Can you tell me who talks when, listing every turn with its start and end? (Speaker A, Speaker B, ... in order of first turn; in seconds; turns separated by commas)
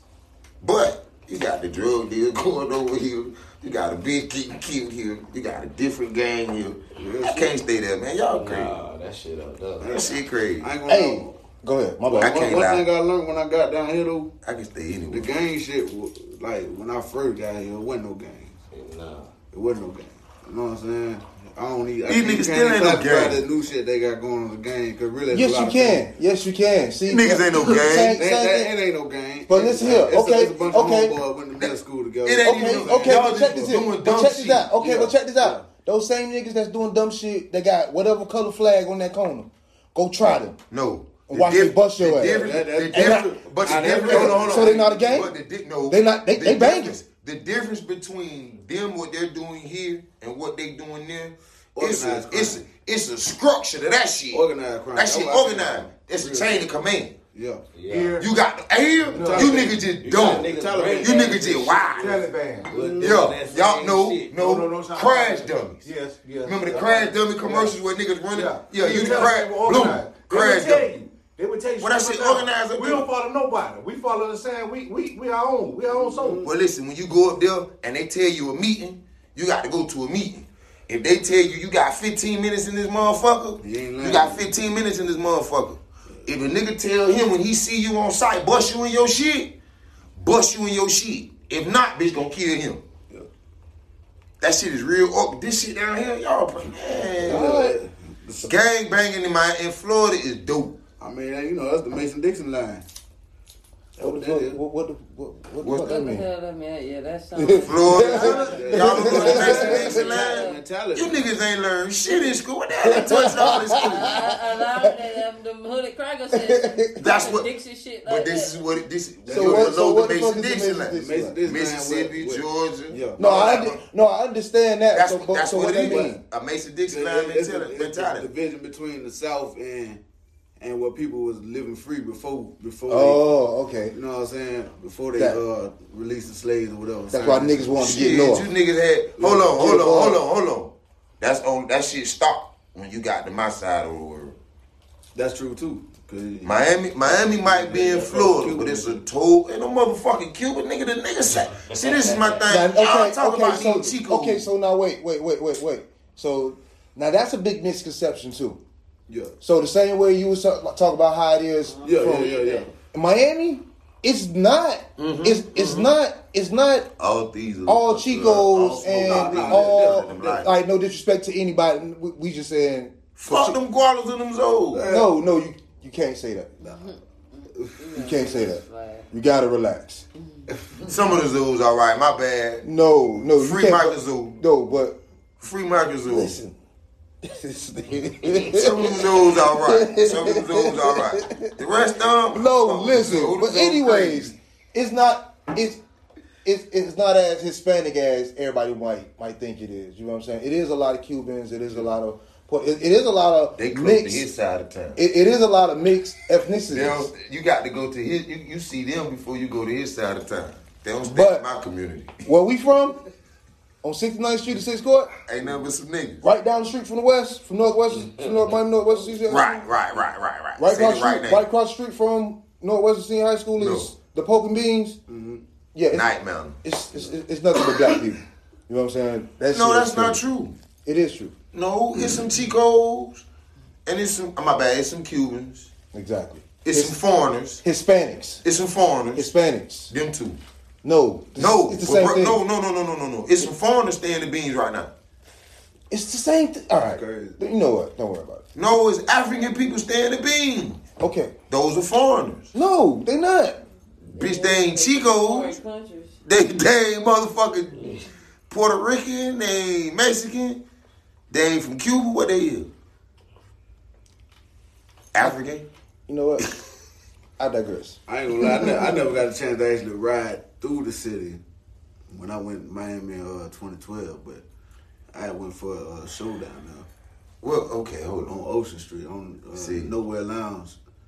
Speaker A: 0.6-8.8, Speaker B: 7.1-7.5, Speaker B: 8.3-10.0, Speaker C: 9.8-11.4, Speaker A: 9.9-10.7, Speaker D: 10.9-12.5, Speaker C: 12.0-14.3, Speaker A: 12.2-12.9, Speaker A: 14.4-15.3, Speaker C: 15.1-18.6, Speaker B: 18.7-19.3, Speaker C: 19.5-26.1, Speaker A: 22.1-23.4, Speaker D: 25.3-28.7, Speaker A: 27.1-28.2, Speaker C: 27.6-33.8, Speaker D: 29.5-31.2, Speaker A: 31.6-34.7, Speaker D: 32.4-40.6, Speaker C: 34.8-35.6, Speaker A: 40.7-57.2, Speaker D: 41.3-43.4, Speaker C: 42.1-45.1, Speaker D: 43.9-45.3, Speaker D: 45.9-47.0, Speaker C: 51.7-52.6, Speaker C: 54.3-56.7, Speaker C: 57.3-57.7, Speaker B: 57.7-58.2, Speaker E: 57.8-58.3, Speaker A: 58.2-62.2, Speaker E: 59.1-59.7, Speaker C: 59.1-64.2, Speaker B: 59.9-62.1, Speaker E: 61.0-61.4, Speaker E: 61.9-63.1, Speaker B: 62.7-64.3, Speaker A: 63.0-65.9, Speaker E: 64.3-67.8, Speaker A: 66.4-70.9, Speaker C: 66.7-67.1, Speaker E: 68.3-76.4, Speaker C: 68.9-69.2, Speaker A: 71.8-73.1, Speaker C: 75.9-76.5, Speaker A: 76.4-89.5, Speaker C: 83.6-84.5, Speaker A: 90.2-92.8, Speaker A: 94.4-97.6, Speaker C: 97.1-98.5, Speaker D: 97.2-97.7, Speaker A: 98.4-100.8, Speaker C: 101.0-102.8, Speaker C: 104.0-104.6, Speaker D: 104.0-106.2, Speaker A: 105.6-105.9, Speaker F: 105.8-110.5, Speaker D: 107.3-110.0, Speaker A: 107.7-114.3, Speaker C: 108.1-111.3, Speaker E: 108.3-108.9, Speaker D: 112.8-114.2, Speaker F: 113.8-118.5, Speaker D: 116.3-117.0, Speaker A: 117.0-117.5, Speaker A: 118.0-123.8, Speaker C: 119.2-119.8, Speaker D: 119.3-121.4, Speaker C: 120.9-123.3, Speaker D: 123.2-126.2, Speaker A: 124.9-128.3, Speaker C: 126.8-130.0, Speaker C: 130.6-133.2, Speaker D: 132.9-133.9, Speaker C: 133.9-138.1, Speaker D: 135.2-135.4, Speaker D: 137.1-138.5, Speaker A: 137.8-144.4, Speaker C: 139.2-139.7, Speaker D: 139.5-140.2, Speaker C: 145.1-149.0, Speaker A: 146.4-154.4, Speaker B: 151.7-152.4, Speaker D: 152.5-158.6, Speaker C: 159.1-159.3, Speaker D: 159.4-166.9, Speaker F: 161.7-162.7, Speaker C: 161.8-162.7, Speaker A: 165.0-165.9, Speaker A: 167.0-170.5, Speaker D: 167.7-173.6, Speaker C: 168.8-170.4, Speaker A: 173.2-174.9, Speaker C: 174.7-175.1, Speaker D: 174.8-176.5, Speaker F: 176.6-179.1, Speaker D: 177.9-180.0, Speaker F: 180.2-180.5, Speaker A: 180.8-182.7, Speaker D: 182.6-185.0, Speaker A: 183.3-184.3, Speaker A: 185.4-186.4, Speaker D: 186.1-186.5, Speaker D: 187.2-195.8, Speaker A: 188.5-194.3, Speaker D: 196.4-204.2, Speaker A: 203.6-205.0, Speaker D: 204.9-207.1, Speaker A: 206.7-212.2, Speaker D: 211.0-211.4, Speaker D: 212.2-213.0, Speaker D: 213.8-215.1, Speaker A: 215.2-216.2, Speaker D: 216.2-219.6, Speaker A: 219.3-221.4, Speaker D: 220.6-225.0, Speaker A: 223.6-223.9, Speaker C: 225.1-225.4, Speaker D: 225.7-230.2, Speaker A: 225.9-226.6, Speaker A: 229.5-230.6, Speaker D: 230.8-231.3, Speaker A: 231.5-233.2, Speaker A: 233.8-235.7, Speaker D: 235.9-237.0, Speaker A: 236.6-237.6, Speaker D: 237.6-238.4, Speaker A: 238.4-239.3, Speaker D: 239.1-239.9, Speaker A: 239.9-240.4, Speaker D: 240.8-242.4, Speaker A: 241.3-244.9, Speaker D: 245.9-248.4, Speaker C: 246.9-247.4, Speaker A: 248.5-250.8, Speaker D: 251.0-251.3, Speaker A: 251.5-252.5, Speaker D: 252.5-253.6, Speaker A: 254.1-255.5, Speaker F: 254.1-256.2, Speaker A: 256.2-258.0, Speaker A: 258.5-260.6, Speaker A: 261.3-262.7, Speaker A: 265.1-265.7, Speaker D: 266.1-266.5, Speaker D: 267.4-268.8, Speaker C: 268.1-271.4, Speaker C: 272.1-274.4, Speaker C: 275.1-276.9, Speaker A: 277.4-278.4, Speaker C: 278.2-280.8, Speaker A: 279.5-279.9